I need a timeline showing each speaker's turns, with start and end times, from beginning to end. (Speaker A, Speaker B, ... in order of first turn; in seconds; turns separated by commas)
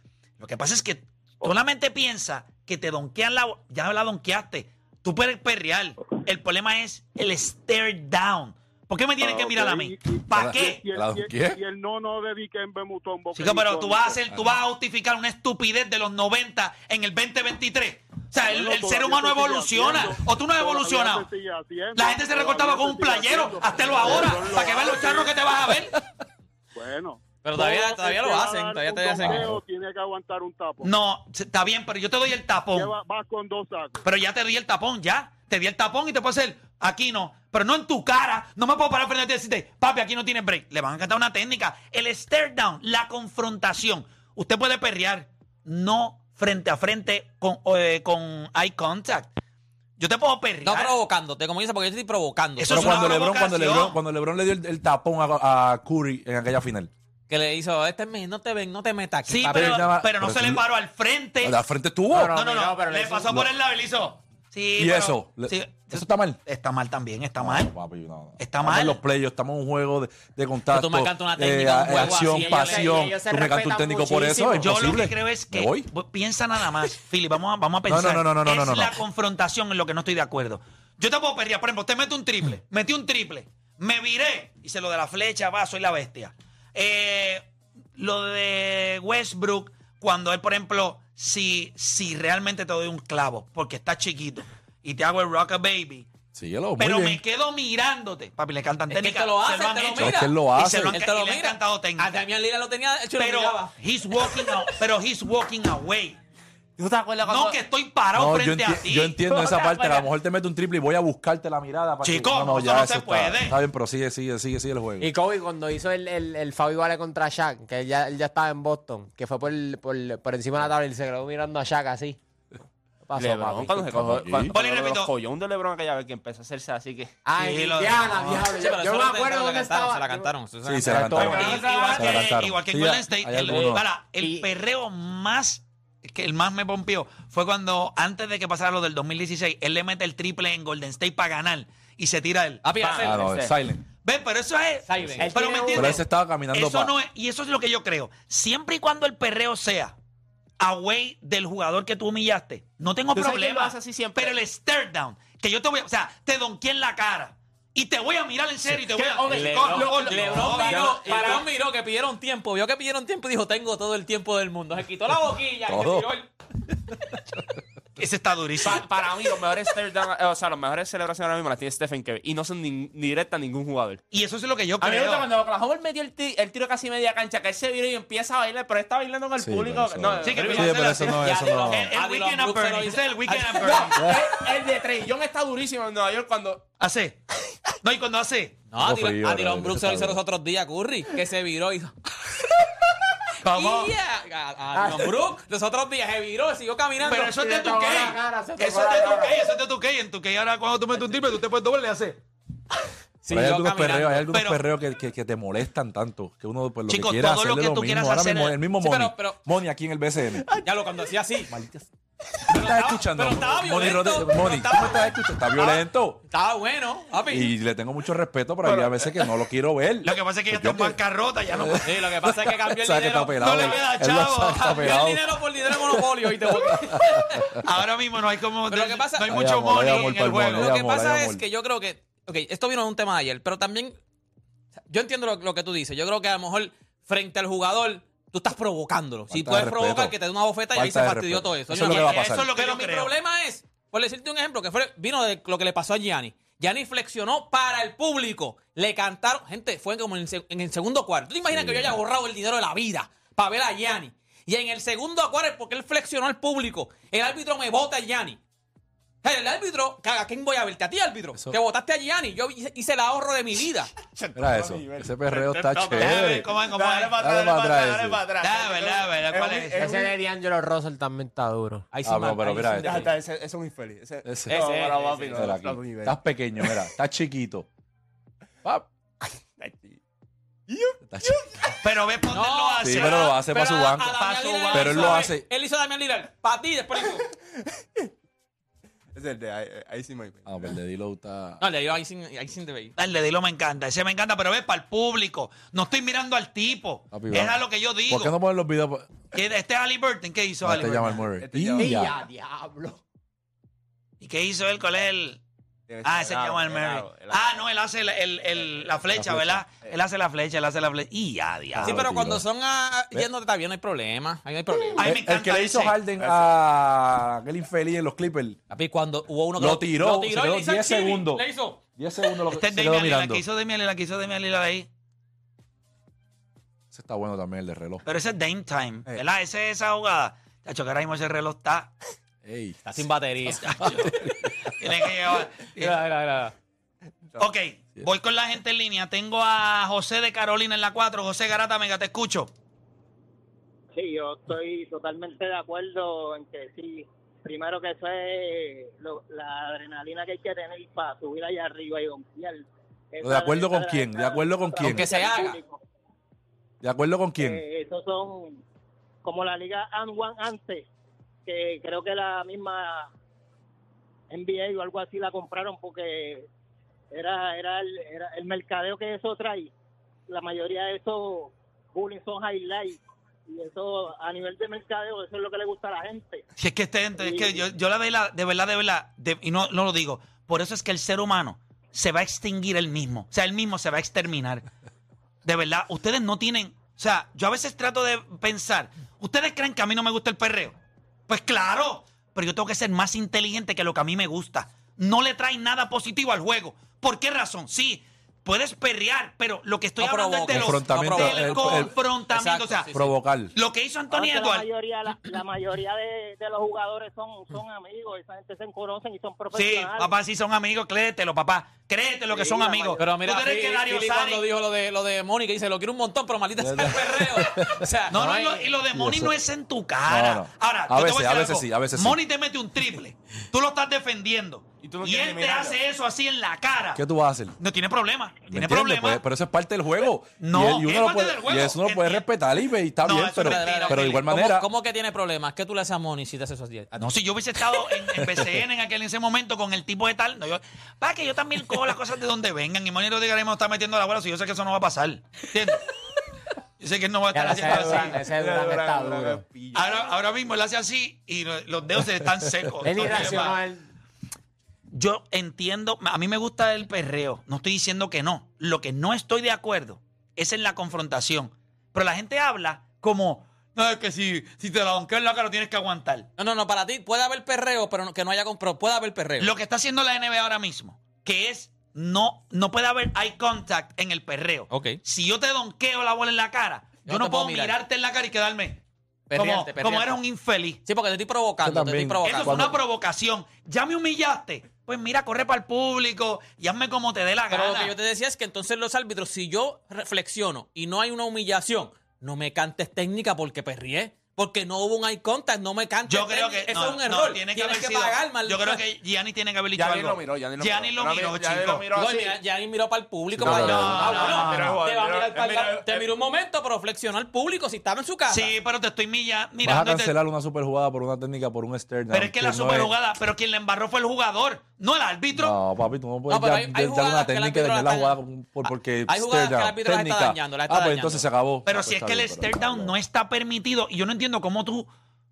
Speaker A: 0.4-10.8, Speaker B: 9.2-14.2, Speaker C: 10.3-11.6, Speaker A: 13.3-21.3, Speaker C: 14.3-14.6, Speaker B: 18.4-25.4, Speaker A: 21.9-26.0, Speaker B: 26.7-31.0, Speaker D: 27.4-29.6, Speaker C: 29.2-29.6, Speaker A: 30.8-32.9, Speaker B: 32.7-34.0, Speaker A: 34.0-49.3, Speaker A: 50.0-50.9, Speaker D: 50.6-53.2, Speaker A: 52.6-54.0, Speaker C: 52.7-56.9, Speaker D: 57.3-59.9, Speaker A: 59.2-61.6, Speaker C: 59.5-60.6, Speaker C: 61.4-62.4, Speaker E: 62.1-63.5, Speaker A: 62.3-67.7, Speaker C: 64.8-66.4, Speaker C: 67.4-75.9, Speaker A: 68.4-69.0, Speaker D: 70.7-73.1, Speaker E: 72.1-74.7, Speaker A: 74.6-96.1, Speaker C: 77.9-79.0, Speaker C: 96.3-97.2, Speaker A: 96.8-102.2, Speaker D: 98.9-104.6, Speaker C: 99.9-101.0, Speaker A: 103.2-106.2, Speaker F: 106.8-107.6, Speaker A: 107.2-109.2, Speaker C: 108.1-115.1, Speaker A: 112.0-113.6, Speaker E: 115.0-122.2, Speaker E: 123.0-123.9, Speaker F: 123.2-127.2, Speaker C: 123.8-124.5, Speaker A: 124.5-125.1, Speaker E: 127.2-130.3, Speaker A: 127.3-128.4, Speaker D: 128.4-131.6, Speaker C: 130.6-133.8, Speaker E: 130.8-132.0, Speaker A: 131.2-142.7, Speaker F: 131.6-132.1, Speaker E: 133.5-134.5, Speaker D: 142.6-143.4, Speaker F: 142.8-143.5, Speaker C: 143.0-143.8, Speaker A: 144.0-149.9, Speaker D: 144.8-145.3, Speaker E: 145.2-146.0, Speaker C: 145.7-146.9, Speaker A: 150.6-161.4, Speaker F: 153.1-154.4, Speaker F: 158.8-161.5, Speaker D: 159.3-166.3, Speaker C: 165.7-166.1, Speaker A: 168.0-168.9, Speaker F: 168.6-174.0, Speaker A: 174.1-175.3, Speaker F: 174.8-181.0, Speaker C: 179.4-181.9, Speaker A: 180.2-184.1, Speaker D: 181.1-184.0, Speaker F: 183.6-186.7, Speaker A: 186.8-187.2, Speaker A: 187.8-188.6, Speaker D: 188.7-191.9, Speaker C: 188.8-190.2, Speaker A: 193.4-193.9, Speaker D: 193.4-197.3, Speaker E: 194.7-195.1, Speaker A: 197.0-202.2, Speaker E: 197.1-199.4, Speaker D: 203.2-204.3, Speaker C: 203.3-210.5, Speaker A: 204.3-204.6, Speaker A: 206.9-208.6, Speaker D: 208.8-209.4, Speaker F: 210.4-210.7, Speaker D: 210.6-211.5, Speaker C: 211.5-211.8, Speaker D: 212.5-217.5, Speaker C: 212.5-216.2, Speaker C: 217.3-227.6, Speaker F: 218.6-219.1, Speaker A: 220.0-221.9, Speaker D: 221.8-223.8, Speaker A: 223.4-224.9, Speaker D: 224.6-227.5, Speaker A: 227.6-230.7, Speaker D: 228.7-234.0, Speaker C: 229.3-231.4, Speaker D: 234.9-258.4, Speaker C: 239.3-240.2, Speaker C: 240.7-242.5, Speaker A: 241.8-243.1, Speaker C: 251.5-251.9, Speaker D: 259.2-263.9, Speaker F: 264.1-270.2, Speaker C: 264.3-266.5, Speaker A: 265.9-267.2, Speaker C: 267.2-268.2, Speaker A: 268.4-269.8, Speaker E: 269.8-271.9, Speaker D: 271.9-273.1, Speaker C: 272.0-273.1, Speaker F: 272.8-276.8, Speaker C: 274.2-274.7, Speaker D: 274.5-275.4, Speaker C: 275.3-277.7, Speaker F: 279.6-280.0, Speaker F: 280.7-281.7, Speaker C: 281.1-281.4, Speaker A: 281.8-283.4, Speaker D: 282.3-287.3, Speaker C: 282.8-284.1, Speaker A: 284.0-285.3, Speaker C: 284.7-285.4, Speaker F: 289.1-290.7, Speaker C: 290.4-291.6, Speaker D: 291.6-292.9, Speaker A: 293.0-298.3, Speaker C: 297.1-299.1, Speaker A: 299.3-301.2, Speaker C: 300.6-302.1, Speaker F: 301.2-302.1, Speaker E: 301.7-303.0, Speaker A: 304.2-305.4, Speaker F: 305.9-307.6, Speaker A: 306.0-312.0, Speaker C: 309.1-309.6, Speaker C: 311.7-312.4, Speaker D: 311.8-315.1, Speaker A: 314.9-316.0, Speaker C: 315.0-318.6, Speaker F: 316.2-316.5, Speaker D: 318.7-322.4, Speaker C: 319.6-321.4, Speaker C: 322.0-323.4, Speaker A: 322.5-324.9, Speaker C: 326.9-328.0, Speaker A: 328.0-331.9, Speaker C: 332.4-332.8, Speaker D: 332.8-333.8, Speaker A: 333.5-335.9, Speaker C: 333.8-334.7, Speaker D: 335.8-336.5, Speaker A: 337.4-342.5, Speaker G: 343.9-355.8, Speaker C: 353.2-355.1, Speaker D: 354.8-355.6, Speaker C: 356.8-357.6, Speaker G: 357.4-358.6, Speaker G: 359.2-360.9, Speaker G: 361.4-363.1, Speaker G: 364.3-366.5, Speaker G: 367.1-369.7, Speaker G: 370.3-376.4, Speaker A: 376.6-384.6, Speaker G: 377.2-377.6, Speaker A: 385.4-390.8, Speaker A: 391.3-402.9, Speaker D: 400.0-403.1, Speaker C: 400.5-401.9, Speaker C: 402.9-403.5, Speaker A: 403.5-404.7, Speaker G: 404.1-410.1, Speaker A: 409.5-414.4, Speaker G: 412.3-413.0, Speaker D: 413.0-418.4, Speaker C: 416.6-417.9, Speaker A: 418.1-427.0, Speaker E: 418.1-418.8, Speaker C: 418.9-419.3, Speaker C: 420.1-422.2, Speaker F: 424.8-425.8, Speaker C: 426.9-427.6, Speaker A: 427.6-429.2, Speaker C: 428.5-434.7, Speaker A: 430.4-432.3, Speaker A: 433.0-434.2, Speaker D: 433.4-437.1, Speaker A: 437.0-445.9, Speaker C: 438.2-438.4, Speaker A: 446.8-448.2, Speaker E: 447.3-449.4, Speaker F: 447.7-450.1, Speaker A: 449.7-453.6, Speaker E: 452.8-453.9, Speaker A: 454.9-466.3, Speaker D: 466.4-469.5, Speaker A: 469.4-478.8, Speaker D: 474.7-475.0, Speaker D: 477.1-477.7, Speaker D: 479.3-480.2, Speaker A: 479.3-480.8, Speaker D: 480.9-482.7, Speaker C: 481.6-482.8, Speaker A: 482.2-487.9, Speaker D: 487.5-498.8, Speaker A: 496.1-501.9, Speaker F: 499.7-502.4, Speaker D: 501.9-508.5, Speaker C: 503.3-504.1, Speaker F: 503.4-506.1, Speaker A: 503.5-504.8, Speaker A: 508.3-510.1, Speaker C: 509.6-512.9, Speaker A: 512.1-515.5, Speaker C: 515.3-522.9, Speaker D: 516.3-521.3, Speaker A: 521.6-524.9